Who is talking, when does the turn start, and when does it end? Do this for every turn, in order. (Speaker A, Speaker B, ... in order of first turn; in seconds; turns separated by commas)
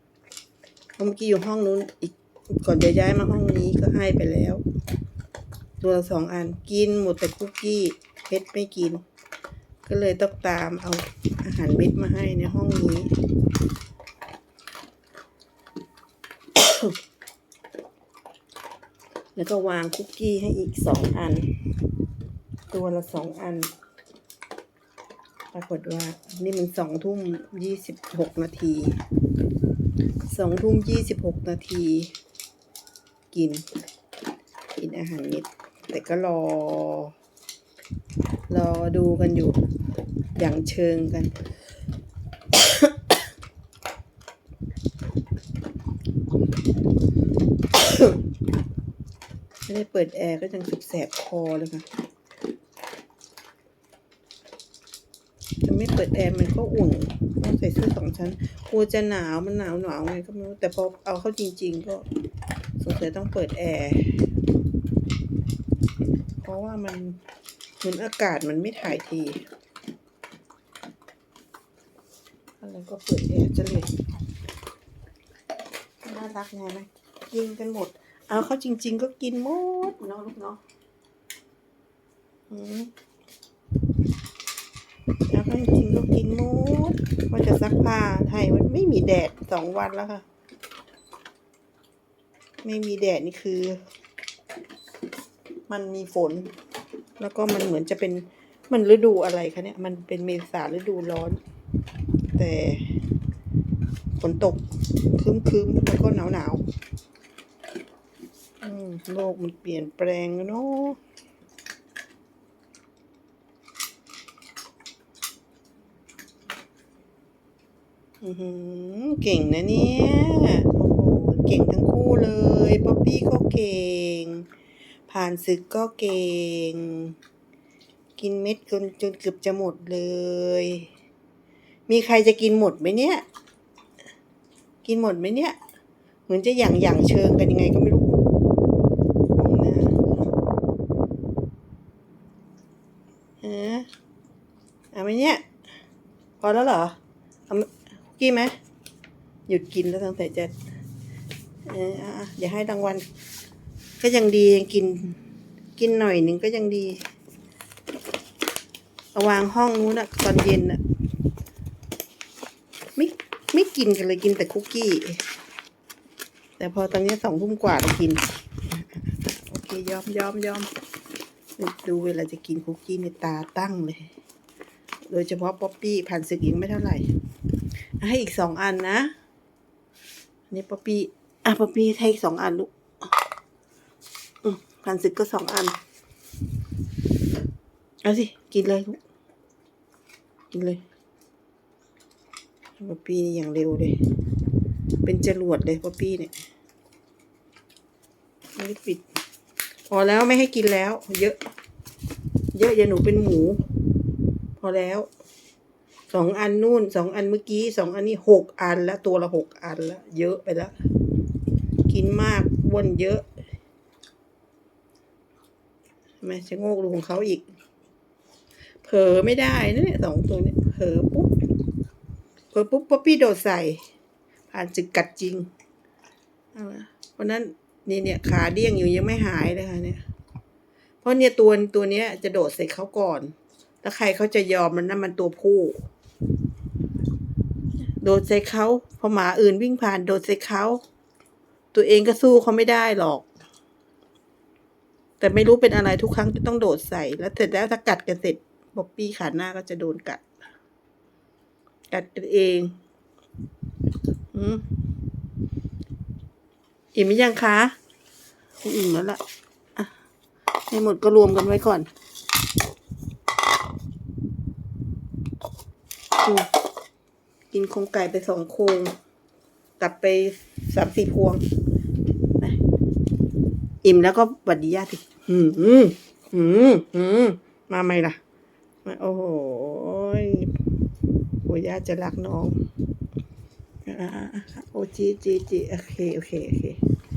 Speaker A: 1.0-4.6, Speaker A: 5.8-9.0, Speaker A: 9.8-13.1, Speaker A: 16.6-16.9, Speaker A: 19.3-21.5, Speaker A: 22.7-23.7, Speaker A: 25.5-28.9, Speaker A: 30.2-32.1, Speaker A: 33.3-33.6, Speaker A: 34.8-37.1, Speaker A: 38.5-39.6, Speaker A: 40.4-41.3, Speaker A: 42.6-42.8, Speaker A: 47.8-48.1, Speaker A: 49.7-51.9, Speaker A: 55.6-62.0, Speaker A: 62.8-64.2, Speaker A: 66.4-67.2, Speaker A: 67.8-69.4, Speaker A: 72.6-73.9, Speaker A: 76.0-80.6, Speaker A: 82.5-82.9, Speaker A: 85.3-90.2, Speaker A: 92.6-93.8, Speaker A: 95.7-96.5, Speaker A: 97.2-101.4, Speaker A: 102.3-102.9, Speaker A: 104.2-106.6, Speaker A: 108.6-111.0, Speaker A: 118.2-124.5, Speaker A: 125.1-127.1, Speaker A: 128.2-130.9, Speaker A: 131.9-133.2, Speaker A: 134.8-135.6, Speaker A: 136.3-138.2, Speaker A: 139.3-140.0, Speaker A: 143.4-143.9, Speaker A: 144.9-145.4, Speaker A: 146.4-146.9, Speaker A: 147.5-148.5, Speaker A: 149.5-150.5, Speaker A: 151.7-153.0, Speaker A: 154.0-155.2, Speaker A: 155.8-157.1, Speaker A: 159.1-160.8, Speaker A: 162.9-165.2, Speaker A: 166.6-170.7, Speaker A: 171.6-174.1, Speaker A: 175.1-177.1, Speaker A: 178.0-179.1, Speaker A: 180.5-183.1, Speaker A: 184.4-185.8, Speaker A: 188.0-189.0, Speaker A: 190.5-190.8, Speaker A: 192.8-193.9, Speaker A: 195.0-196.3, Speaker A: 198.6-199.0, Speaker A: 199.9-201.4, Speaker A: 202.5-203.6, Speaker A: 204.6-205.1, Speaker A: 206.1-210.7, Speaker A: 211.9-213.2, Speaker A: 216.2-217.4, Speaker A: 218.8-221.3, Speaker A: 222.5-223.8, Speaker A: 224.5-225.5, Speaker A: 226.5-230.0, Speaker A: 231.0-235.8, Speaker A: 238.0-240.8, Speaker A: 241.7-243.2, Speaker A: 245.2-250.2, Speaker A: 251.9-252.7, Speaker A: 254.3-254.6, Speaker A: 256.9-257.7, Speaker A: 258.6-259.2, Speaker A: 260.7-261.9, Speaker A: 266.2-266.5, Speaker A: 267.5-268.9, Speaker A: 269.8-271.4, Speaker A: 273.8-278.2, Speaker A: 278.8-280.5, Speaker A: 281.4-282.6, Speaker A: 283.9-286.8